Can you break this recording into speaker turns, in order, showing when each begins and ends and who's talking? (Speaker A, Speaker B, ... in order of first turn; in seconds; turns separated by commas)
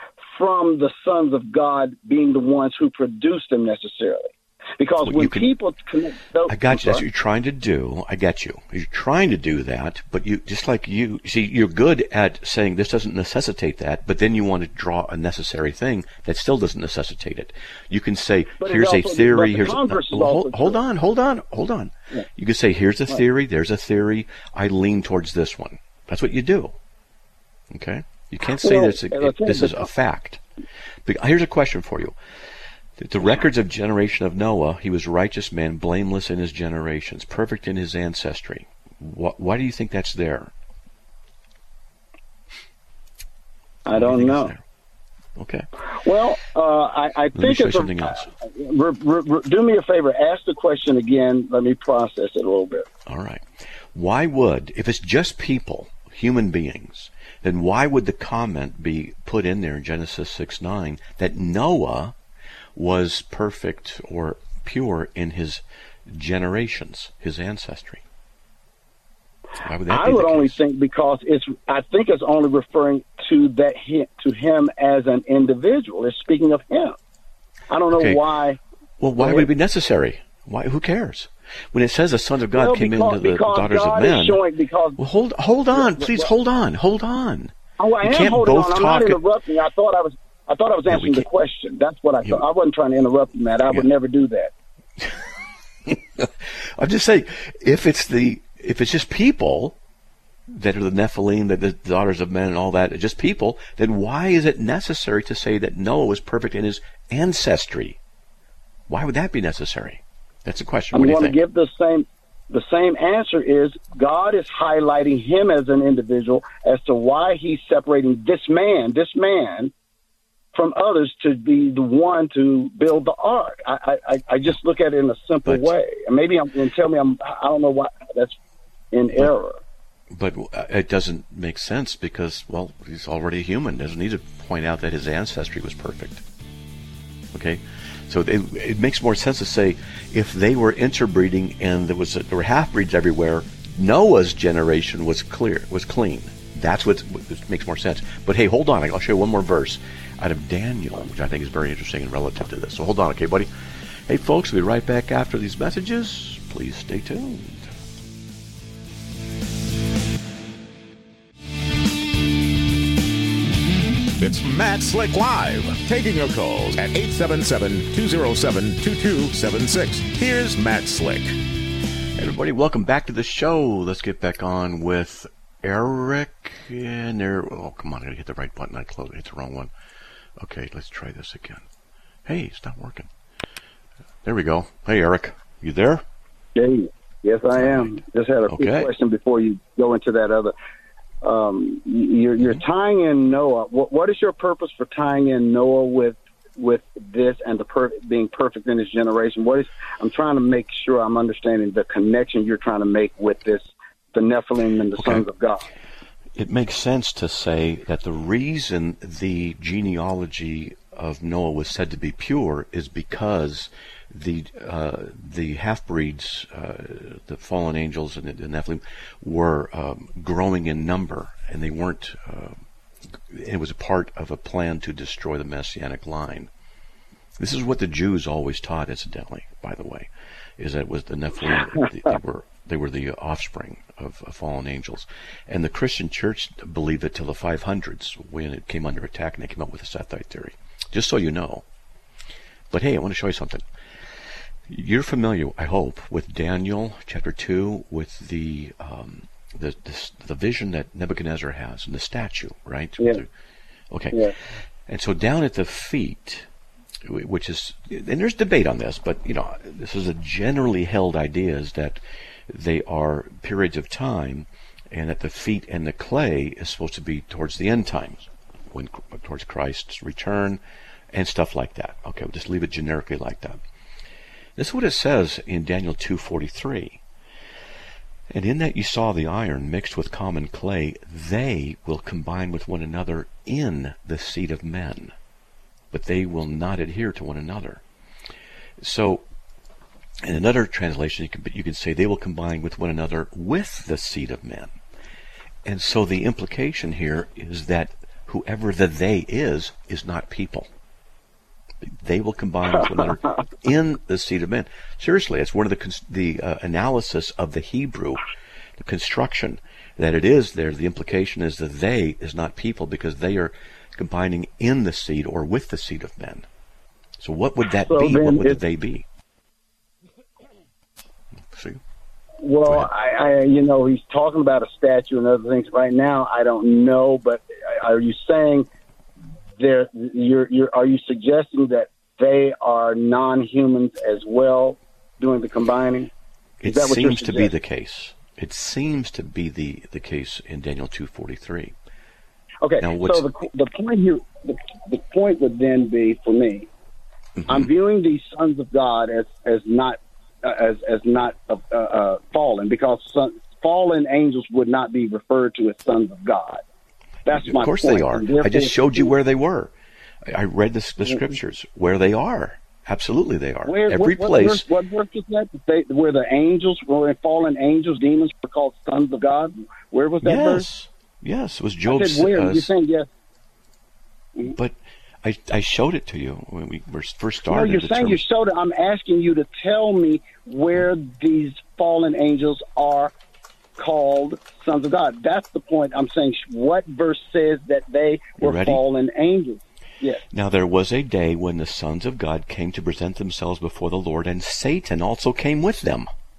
Speaker A: 0.3-7.0, Speaker B: 5.0-5.5, Speaker B: 6.5-26.8, Speaker A: 18.6-20.8, Speaker B: 27.7-30.4, Speaker A: 28.6-29.9, Speaker B: 31.0-32.1, Speaker B: 33.0-40.5, Speaker A: 43.8-44.5, Speaker B: 43.9-44.6, Speaker B: 45.4-45.7, Speaker A: 46.0-52.9, Speaker B: 47.3-48.3, Speaker B: 53.0-62.1, Speaker B: 62.7-68.0, Speaker B: 69.6-70.6, Speaker A: 69.9-77.0, Speaker A: 77.7-78.6, Speaker B: 77.9-78.2, Speaker B: 79.0-84.4, Speaker A: 79.2-79.5, Speaker A: 82.5-85.0, Speaker B: 85.0-89.2, Speaker A: 85.7-86.3, Speaker A: 87.8-94.5, Speaker B: 90.9-91.3, Speaker B: 95.0-95.2, Speaker B: 95.8-99.8, Speaker B: 100.5-108.0, Speaker B: 108.9-111.4, Speaker A: 110.9-119.7, Speaker A: 120.5-128.3, Speaker B: 125.4-125.7, Speaker A: 128.9-129.6, Speaker B: 130.1-136.2, Speaker B: 137.3-153.5, Speaker B: 154.1-157.7, Speaker C: 164.2-171.4, Speaker B: 172.2-179.7, Speaker B: 180.4-181.7, Speaker B: 182.2-183.1, Speaker B: 184.2-186.0, Speaker A: 186.6-190.5, Speaker B: 187.5-188.9, Speaker A: 191.2-205.7, Speaker B: 204.9-205.2, Speaker B: 206.3-222.6, Speaker B: 223.1-226.5, Speaker B: 227.4-241.6, Speaker B: 242.7-253.3, Speaker B: 253.9-254.3, Speaker B: 254.8-256.5, Speaker B: 257.0-273.6, Speaker B: 274.6-277.0, Speaker B: 278.3-285.1, Speaker B: 285.9-287.8, Speaker B: 288.8-289.2, Speaker B: 290.2-294.7, Speaker B: 295.6-300.7, Speaker B: 301.8-308.2, Speaker B: 308.8-316.5, Speaker B: 317.2-319.1, Speaker A: 317.9-318.6, Speaker B: 321.5-321.8, Speaker A: 322.4-328.7, Speaker A: 329.6-336.1, Speaker B: 336.6-341.7, Speaker A: 336.7-337.5, Speaker A: 342.6-346.7, Speaker B: 342.8-343.3, Speaker B: 347.4-347.7, Speaker A: 347.5-356.6, Speaker A: 357.2-359.1, Speaker B: 357.3-359.7, Speaker B: 360.2-364.7, Speaker A: 363.6-370.7, Speaker B: 370.2-372.7, Speaker A: 371.9-373.1, Speaker B: 374.5-378.2, Speaker A: 377.5-383.1, Speaker A: 383.8-390.2, Speaker B: 388.4-388.8, Speaker B: 390.3-396.1